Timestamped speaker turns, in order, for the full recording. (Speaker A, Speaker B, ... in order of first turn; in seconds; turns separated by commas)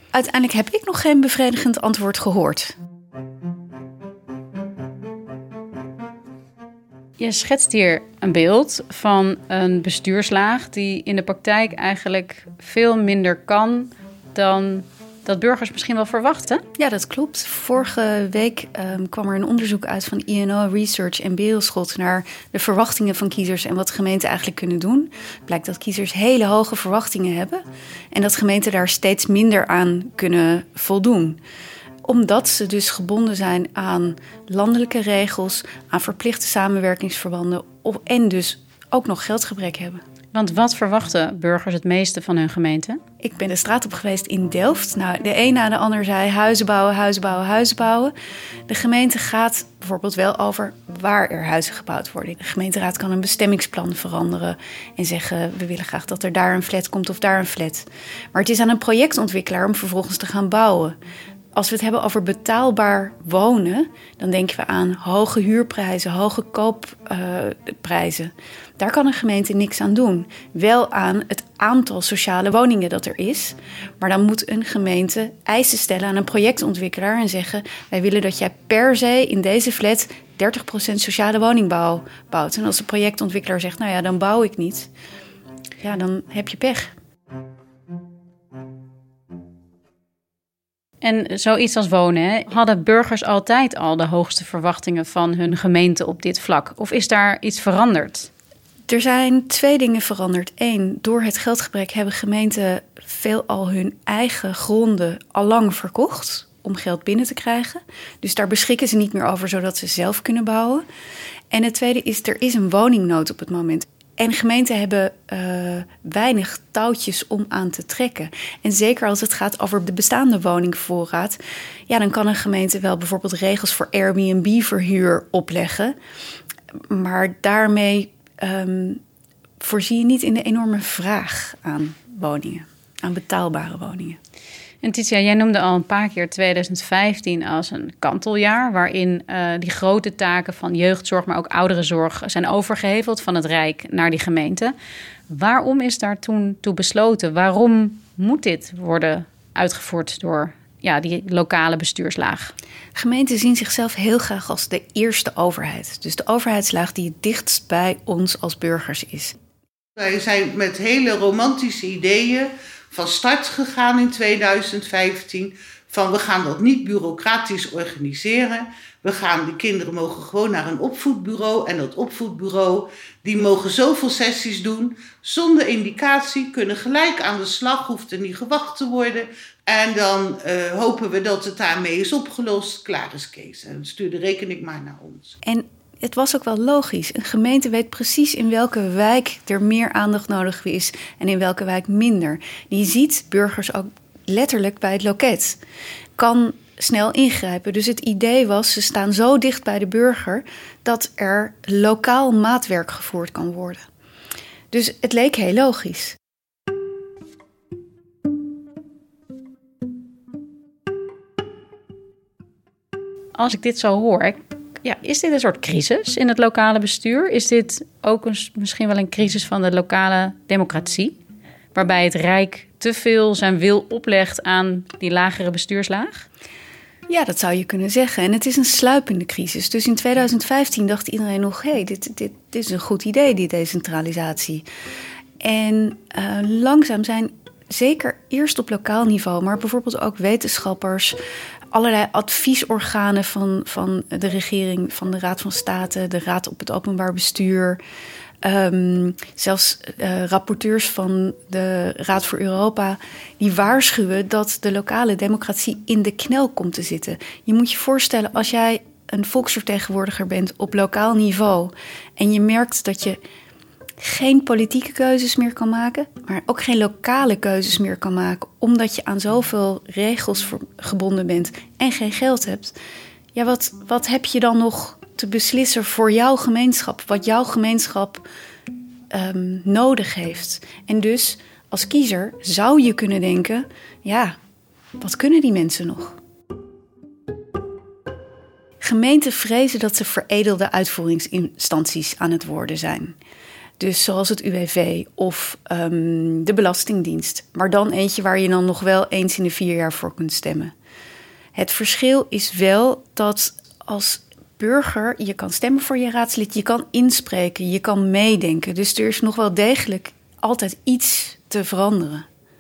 Speaker A: 0.1-2.7, Speaker B: 7.2-16.6, Speaker A: 16.8-31.4, Speaker A: 32.0-40.0, Speaker B: 40.3-43.0, Speaker A: 43.2-48.1, Speaker A: 48.7-61.0, Speaker A: 61.5-84.9, Speaker A: 85.8-86.9, Speaker B: 91.0-98.3, Speaker A: 98.9-110.8, Speaker A: 111.5-126.0, Speaker A: 126.9-129.0, Speaker A: 129.6-134.2, Speaker B: 134.8-144.7, Speaker B: 145.3-152.5, Speaker A: 153.0-159.3, Speaker C: 160.0-185.3, Speaker A: 185.4-195.6, Speaker A: 196.2-203.8, Speaker A: 204.7-206.2, Speaker B: 213.4-221.2, Speaker B: 221.7-226.3, Speaker A: 227.1-234.7, Speaker A: 235.4-241.2, Speaker A: 241.7-247.8, Speaker A: 248.4-263.2, Speaker A: 264.0-272.8, Speaker A: 273.4-278.3, Speaker A: 279.1-284.4, Speaker A: 285.0-286.2, Speaker A: 288.8-293.2, Speaker A: 293.8-300.7, Speaker A: 301.6-312.3